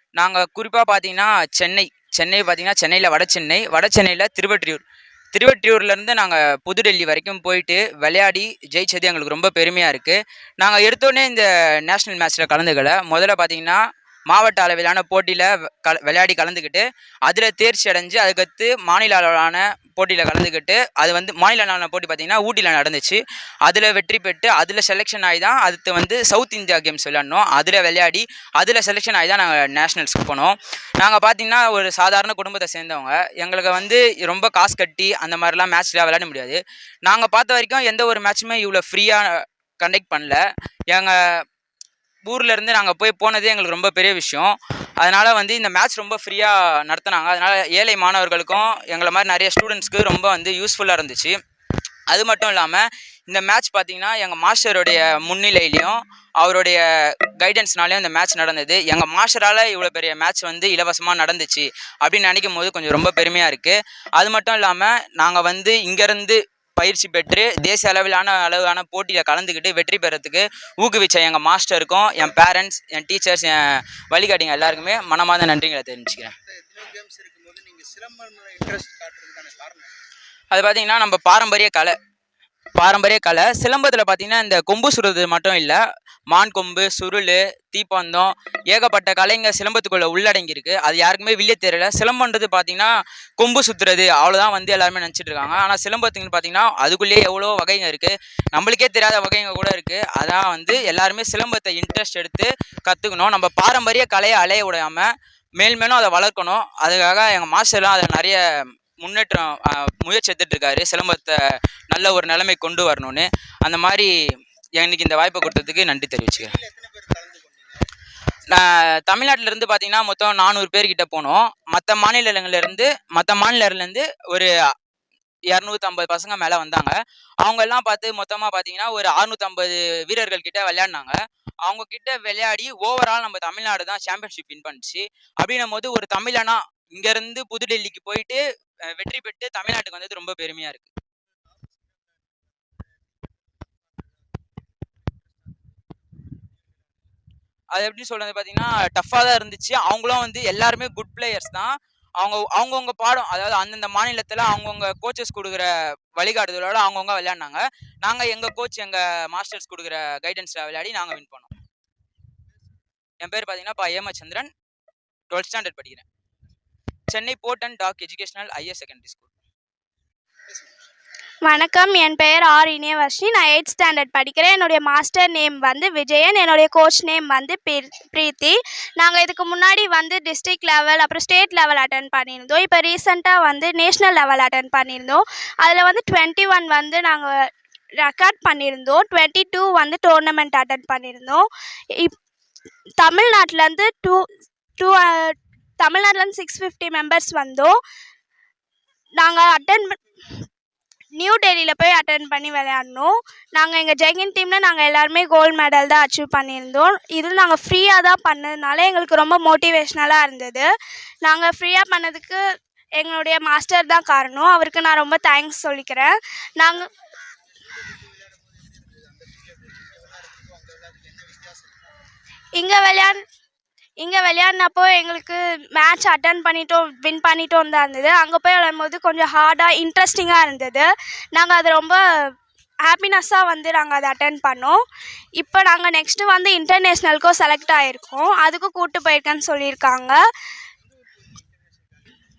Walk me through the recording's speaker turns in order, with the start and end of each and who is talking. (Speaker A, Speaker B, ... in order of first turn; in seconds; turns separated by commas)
Speaker A: 0.2-4.8, Speaker A: 5.3-13.8, Speaker A: 14.3-40.4, Speaker A: 42.3-51.4, Speaker A: 52.1-56.8, Speaker A: 57.4-76.3, Speaker B: 76.5-79.9, Speaker A: 80.5-81.9, Speaker A: 82.8-85.8, Speaker A: 86.3-105.1, Speaker A: 105.6-108.4, Speaker A: 109.0-111.4, Speaker A: 111.9-114.1, Speaker A: 114.8-116.6, Speaker B: 116.3-117.8, Speaker A: 118.5-124.5, Speaker A: 125.5-140.9, Speaker B: 141.4-147.1, Speaker A: 147.7-161.5, Speaker A: 163.2-164.5, Speaker A: 165.3-166.0, Speaker A: 167.1-169.3, Speaker C: 171.4-187.3, Speaker C: 188.0-191.4, Speaker C: 193.0-194.2, Speaker C: 194.8-197.7, Speaker C: 199.2-200.0, Speaker C: 201.2-210.7, Speaker C: 211.2-212.4, Speaker C: 213.0-216.9, Speaker B: 217.5-221.8, Speaker C: 222.6-223.2, Speaker C: 224.0-232.0, Speaker C: 232.9-234.8, Speaker C: 235.4-240.2, Speaker B: 240.8-242.2